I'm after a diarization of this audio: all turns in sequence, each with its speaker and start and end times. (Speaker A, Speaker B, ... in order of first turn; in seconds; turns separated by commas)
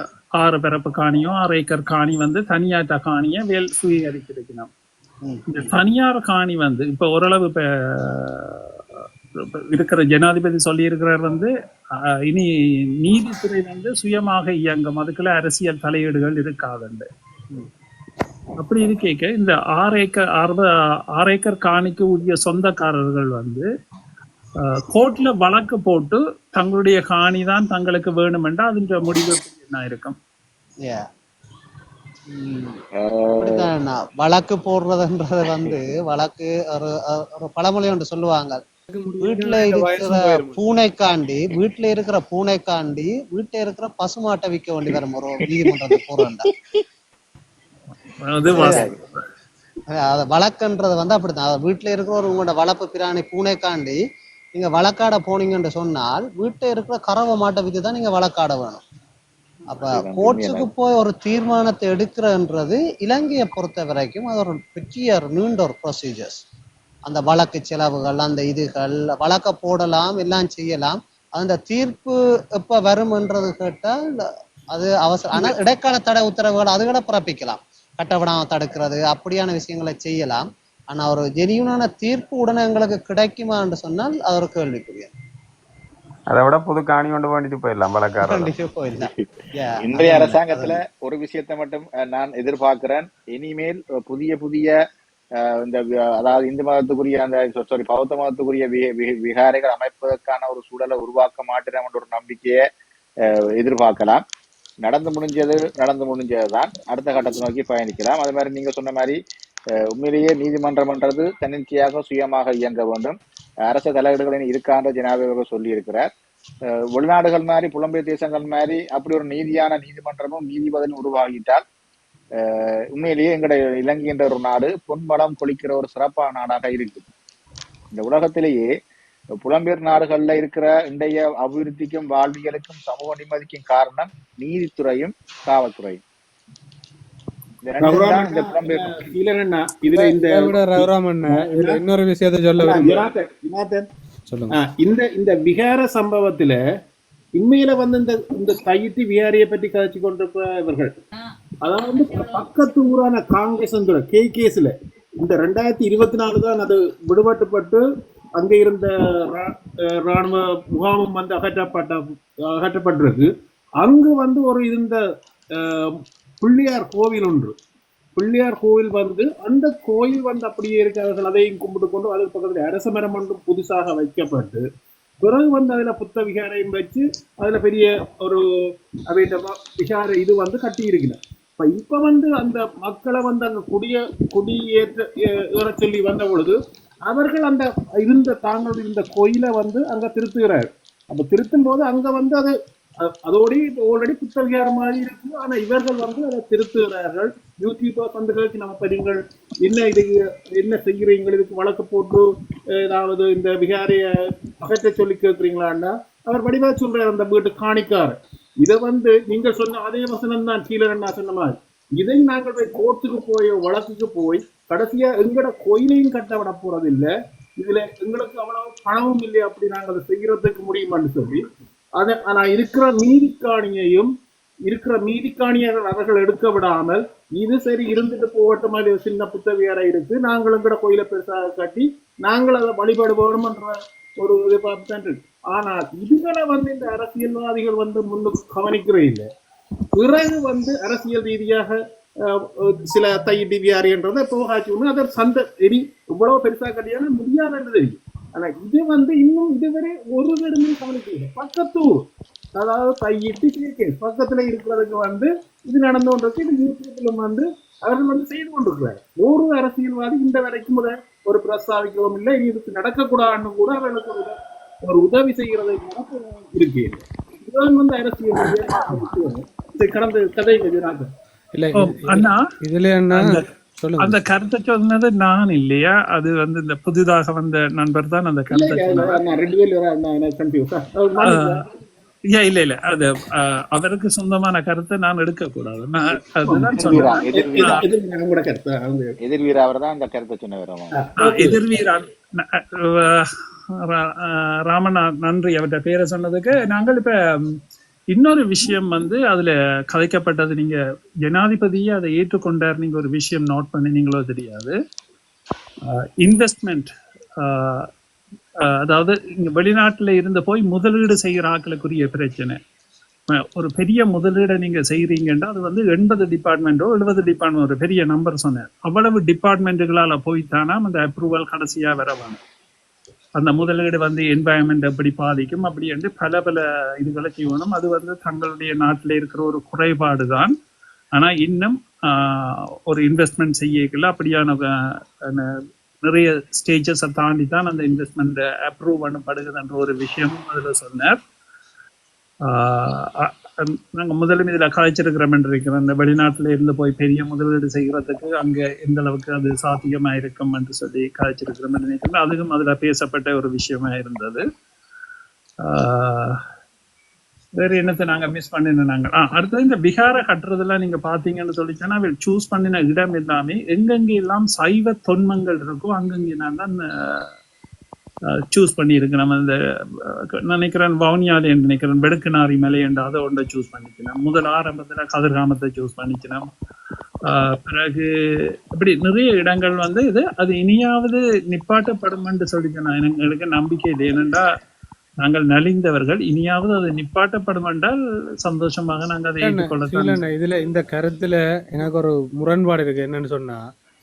Speaker A: 0.4-4.7, Speaker A: 5.5-8.8, Speaker A: 9.7-11.5, Speaker A: 13.0-17.1, Speaker A: 18.6-20.7, Speaker A: 21.2-23.7, Speaker A: 24.6-30.1, Speaker B: 32.3-32.8, Speaker C: 33.0-33.6, Speaker B: 33.4-38.6, Speaker D: 38.9-40.6, Speaker B: 39.2-46.5, Speaker A: 48.2-49.2, Speaker B: 48.5-48.9, Speaker C: 48.6-48.9, Speaker B: 49.9-54.0, Speaker B: 54.5-58.8, Speaker B: 59.7-66.4, Speaker C: 59.7-60.7, Speaker B: 67.0-85.1, Speaker E: 86.3-88.5, Speaker B: 88.2-90.8, Speaker C: 89.0-89.2, Speaker C: 89.8-94.7, Speaker C: 95.4-102.6, Speaker C: 103.6-104.2, Speaker C: 104.8-109.2, Speaker C: 109.9-116.1, Speaker C: 116.9-121.6, Speaker C: 122.4-127.1, Speaker C: 127.9-128.7, Speaker C: 129.4-136.0, Speaker C: 137.6-138.9, Speaker F: 137.8-141.8, Speaker D: 139.9-143.0, Speaker F: 142.6-143.9, Speaker F: 144.5-146.6, Speaker F: 147.4-150.9, Speaker F: 151.7-157.8, Speaker F: 158.4-165.0, Speaker F: 165.6-167.5, Speaker F: 168.2-174.6, Speaker F: 175.2-178.4, Speaker F: 179.1-202.3, Speaker F: 202.8-204.1, Speaker F: 204.6-221.4, Speaker F: 222.0-224.1, Speaker F: 224.7-239.3, Speaker F: 240.0-252.0, Speaker F: 252.6-271.1, Speaker D: 271.5-274.2, Speaker A: 271.8-272.4, Speaker A: 273.1-279.2, Speaker F: 278.5-281.6, Speaker A: 281.2-281.6, Speaker A: 282.3-287.8, Speaker F: 286.4-289.1, Speaker C: 286.8-287.8, Speaker C: 289.2-290.9, Speaker F: 290.9-291.6, Speaker A: 291.2-293.3, Speaker A: 293.8-297.1, Speaker A: 298.1-304.8, Speaker A: 305.9-307.9, Speaker A: 308.7-312.6, Speaker A: 313.3-322.4, Speaker A: 323.4-330.5, Speaker A: 331.1-341.2, Speaker A: 342.4-354.4, Speaker A: 355.6-356.4, Speaker A: 357.6-367.3, Speaker A: 368.5-369.6, Speaker A: 370.4-376.5, Speaker A: 377.3-378.1, Speaker A: 378.8-384.4, Speaker A: 385.2-390.2, Speaker D: 389.4-393.6